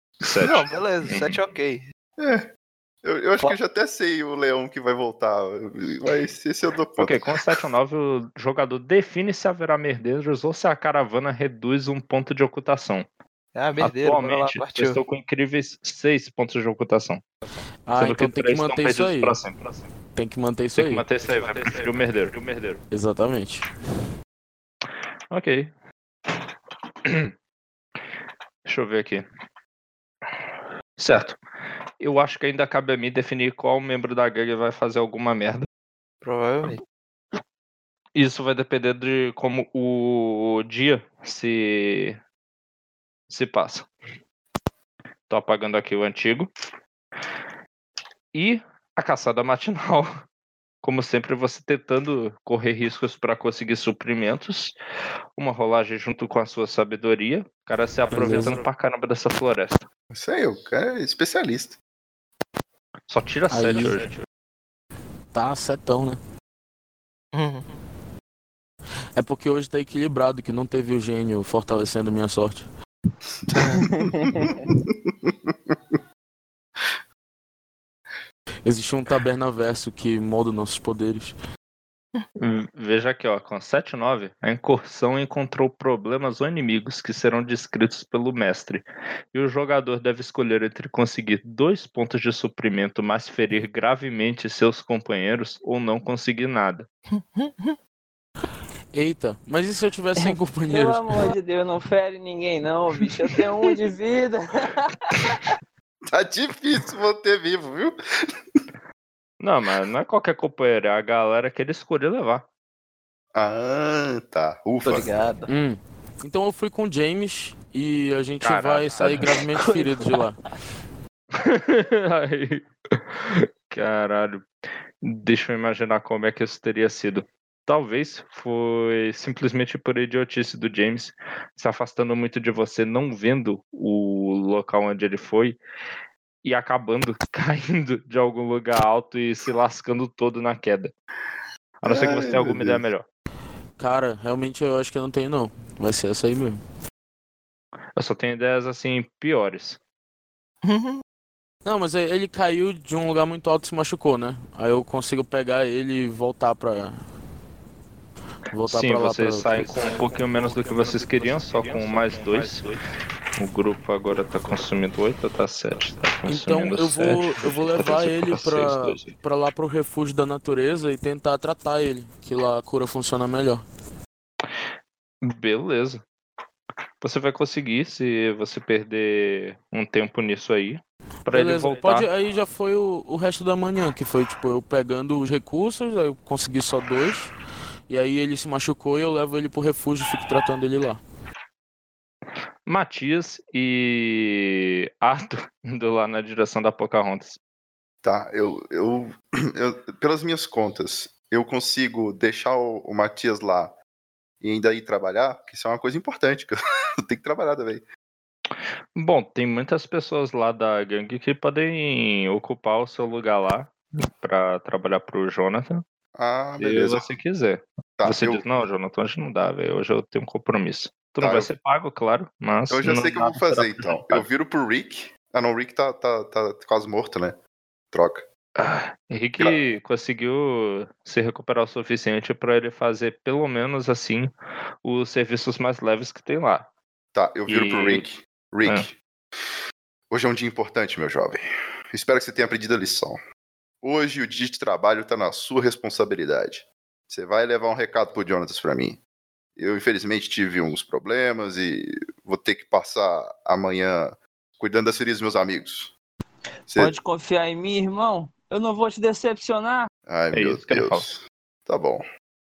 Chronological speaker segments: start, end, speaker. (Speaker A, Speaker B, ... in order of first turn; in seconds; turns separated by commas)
Speaker A: 0.2-1.4, Speaker B: 0.4-1.9, Speaker C: 2.2-2.5, Speaker C: 3.0-7.4, Speaker A: 7.0-13.1, Speaker B: 13.6-15.0, Speaker A: 13.8-17.3, Speaker D: 17.9-19.4, Speaker A: 18.0-19.8, Speaker D: 20.1-21.1, Speaker A: 20.8-22.8, Speaker D: 22.9-23.7, Speaker A: 25.3-25.7, Speaker A: 27.1-27.3, Speaker A: 28.6-29.3, Speaker A: 31.0-31.4, Speaker A: 32.0-35.7, Speaker B: 36.2-36.8, Speaker A: 38.1-42.2, Speaker A: 43.3-43.9, Speaker A: 45.3-46.5, Speaker A: 48.3-50.1, Speaker A: 50.8-54.7, Speaker A: 55.4-59.9, Speaker D: 58.1-58.6, Speaker C: 60.1-61.8, Speaker A: 63.1-64.1, Speaker D: 63.5-64.1, Speaker D: 65.3-66.2, Speaker B: 67.3-67.8, Speaker D: 69.2-72.7, Speaker B: 73.5-73.9, Speaker E: 73.8-74.7, Speaker C: 75.0-76.0, Speaker D: 78.7-81.4, Speaker A: 82.4-96.9, Speaker B: 97.2-97.8, Speaker D: 98.9-101.3, Speaker E: 100.2-105.4, Speaker C: 106.1-108.6, Speaker A: 109.4-112.4, Speaker C: 113.3-115.1, Speaker B: 114.8-115.5, Speaker D: 115.5-120.4, Speaker A: 118.4-119.4, Speaker A: 121.3-124.5, Speaker A: 125.0-135.6, Speaker A: 136.4-140.9, Speaker A: 141.8-143.1, Speaker C: 141.8-142.8, Speaker D: 143.8-146.6, Speaker A: 148.0-149.8, Speaker B: 150.6-151.0, Speaker D: 151.7-157.1, Speaker D: 158.5-160.0, Speaker A: 158.7-162.8, Speaker B: 160.4-162.5, Speaker A: 163.4-169.1, Speaker D: 166.2-173.6, Speaker A: 175.2-176.0, Speaker A: 177.0-182.1, Speaker D: 181.3-187.3, Speaker D: 187.9-191.0, Speaker A: 192.7-197.4, Speaker C: 198.0-203.8, Speaker C: 204.4-207.8, Speaker A: 209.0-215.8, Speaker C: 216.2-217.1, Speaker A: 216.6-224.2, Speaker C: 218.0-218.4, Speaker C: 221.2-221.5, Speaker C: 222.7-227.4, Speaker C: 227.9-228.3, Speaker A: 228.6-234.3, Speaker A: 234.8-236.7, Speaker C: 237.1-239.0, Speaker A: 237.5-238.0, Speaker C: 240.1-243.2, Speaker C: 243.8-249.0, Speaker C: 249.6-255.9, Speaker C: 256.7-256.9, Speaker E: 256.8-259.9, Speaker C: 260.1-262.0, Speaker A: 260.3-261.1